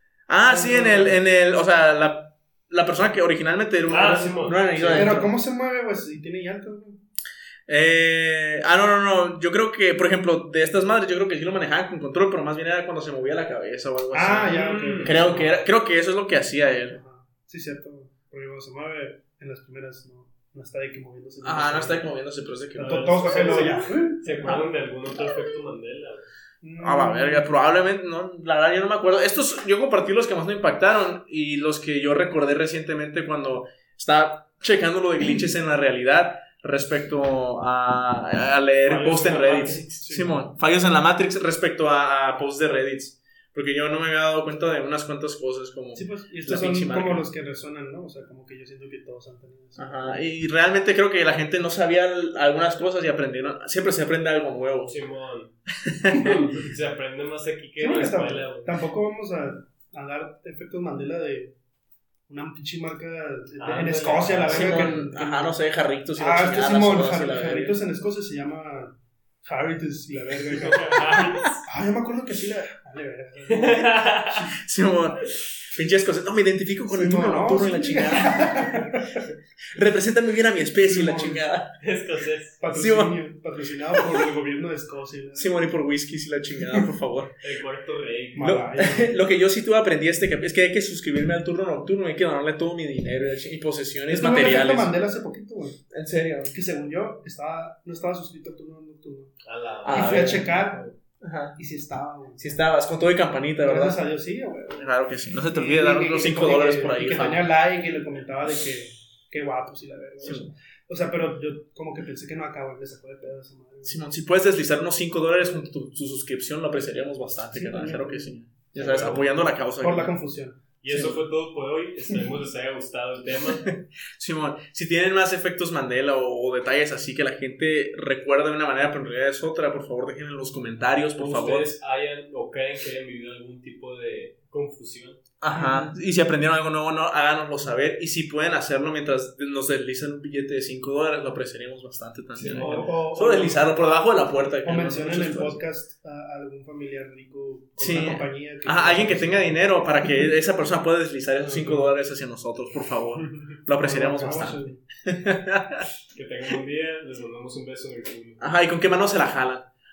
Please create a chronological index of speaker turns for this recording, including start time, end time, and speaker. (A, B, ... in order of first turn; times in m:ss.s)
0:00.3-0:05.3 A
0:00.4-0:01.2 B
0:03.9-0:05.1 C
0:04.8-0:07.0 B
0:07.7-0:17.0 A
0:14.1-0:15.5 B
0:14.5-0:15.4 C
0:16.9-0:22.1 B
0:21.4-0:23.9 A
0:22.8-0:26.3 C
0:22.8-0:24.6 B
0:26.6-0:27.5 B
0:26.8-0:47.2 A
0:38.8-0:40.0 C
0:40.0-0:40.5 B
0:45.9-0:50.2 B
0:49.8-0:55.0 A
0:54.8-0:55.5 C
0:55.8-0:56.4 A
0:56.1-0:58.7 C
0:57.8-1:01.5 B
1:02.3-1:05.6 B
1:03.6-1:05.0 C
1:04.5-1:07.8 A
1:06.2-1:14.2 B
1:10.7-1:11.6 C
1:13.5-1:14.5 C
1:14.5-1:19.0 A
1:16.9-1:19.2 B
1:19.7-1:21.7 A
1:20.8-1:21.4 B
1:21.8-1:22.6 C
1:22.6-1:25.7 B
1:22.7-1:23.2 A
1:24.0-1:24.3 A
1:25.4-1:27.3 A
1:27.4-1:28.5 C
1:28.3-1:29.2 B
1:28.4-1:34.9 A
1:34.1-1:35.8 B
1:35.9-1:36.6 A
1:36.5-1:39.3 B
1:39.4-1:40.9 C
1:39.8-1:40.5 A
1:39.9-1:40.9 B
1:41.2-1:41.5 A
1:41.5-1:42.6 B
1:42.4-1:44.0 A
1:43.6-1:54.0 B
1:44.7-1:47.5 A
1:50.2-1:50.5 A
1:53.8-2:00.1 A
1:57.5-1:58.3 B
1:58.7-1:59.2 C
1:59.8-2:00.6 B
2:00.8-2:03.7 C
2:00.9-2:01.2 A
2:03.6-2:11.7 A
2:11.2-2:15.2 C
2:15.4-2:25.6 A
2:15.5-2:15.9 B
2:22.4-2:22.9 C
2:22.4-2:23.7 B
2:24.6-2:29.7 B
2:27.8-2:35.8 A
2:31.4-2:31.8 C
2:33.2-2:33.6 C
2:33.8-2:34.8 B
2:36.1-2:38.4 C
2:38.4-2:39.7 A